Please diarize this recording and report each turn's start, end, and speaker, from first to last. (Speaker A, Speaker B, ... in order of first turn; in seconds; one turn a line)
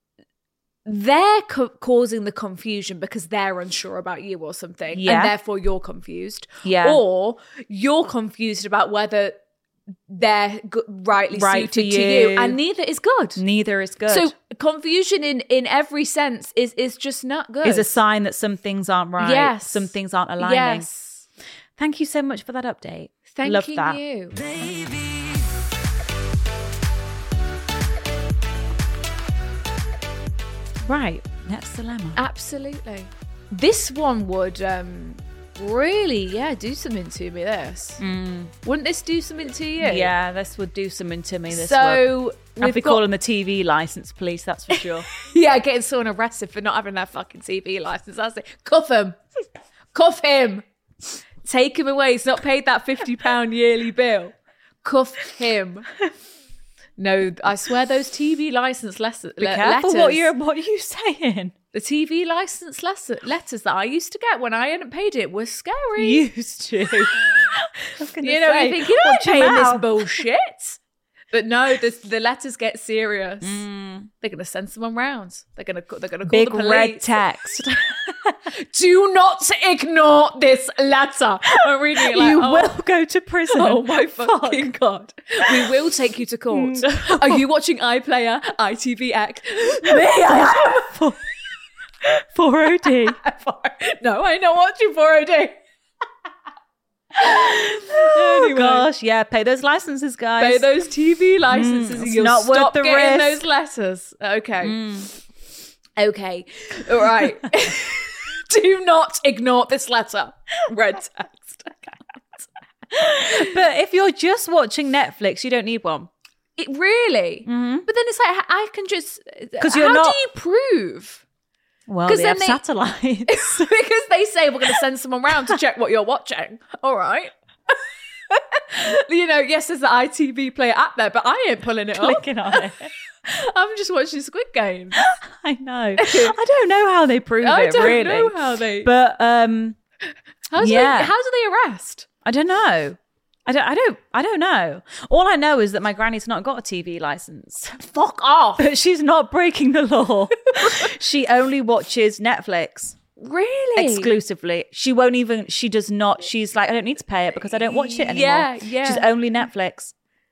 Speaker A: 0.8-9.4
Speaker B: 4.9-5.3
Speaker B: 6.6-7.0
Speaker A: 10.1-13.4
Speaker B: 11.3-12.6
Speaker B: 13.3-14.3
Speaker A: 14.1-17.9
Speaker B: 17.6-20.9
Speaker A: 19.2-21.2
Speaker B: 21.8-25.2
Speaker A: 23.3-24.3
Speaker B: 30.8-32.2
Speaker A: 32.1-38.0
Speaker B: 38.0-38.5
Speaker A: 38.6-40.1
Speaker B: 39.8-45.1
Speaker A: 41.5-43.0
Speaker A: 44.7-49.2
Speaker A: 49.9-50.6
Speaker A: 51.4-55.9
Speaker A: 57.0-60.3
Speaker B: 59.4-61.5
Speaker A: 61.7-66.2
Speaker B: 66.0-67.2
Speaker B: 68.0-70.2
Speaker A: 68.2-70.8
Speaker A: 71.3-73.6
Speaker B: 73.4-74.1
Speaker A: 74.2-77.1
Speaker B: 76.2-78.4
Speaker A: 78.5-82.7
Speaker B: 82.0-84.7
Speaker A: 83.5-90.9
Speaker B: 86.5-87.4
Speaker B: 89.8-91.2
Speaker B: 92.3-93.2
Speaker A: 92.9-95.6
Speaker A: 97.2-98.8
Speaker B: 97.2-100.7
Speaker A: 100.4-104.8
Speaker B: 101.5-103.4
Speaker B: 104.6-105.1
Speaker A: 106.0-112.5
Speaker B: 113.0-116.1
Speaker A: 113.0-113.5
Speaker A: 116.6-121.2
Speaker B: 117.5-117.9
Speaker B: 119.6-120.2
Speaker B: 121.9-123.7
Speaker A: 122.1-122.6
Speaker A: 123.3-127.8
Speaker A: 128.3-132.7
Speaker B: 131.9-132.9
Speaker A: 133.2-135.0
Speaker B: 134.9-139.8
Speaker A: 136.0-136.3
Speaker A: 137.4-138.9
Speaker A: 140.5-142.1
Speaker B: 140.6-141.1
Speaker B: 142.2-147.8
Speaker A: 147.8-148.7
Speaker B: 148.6-152.9
Speaker A: 153.2-154.1
Speaker B: 153.8-159.9
Speaker A: 157.5-159.1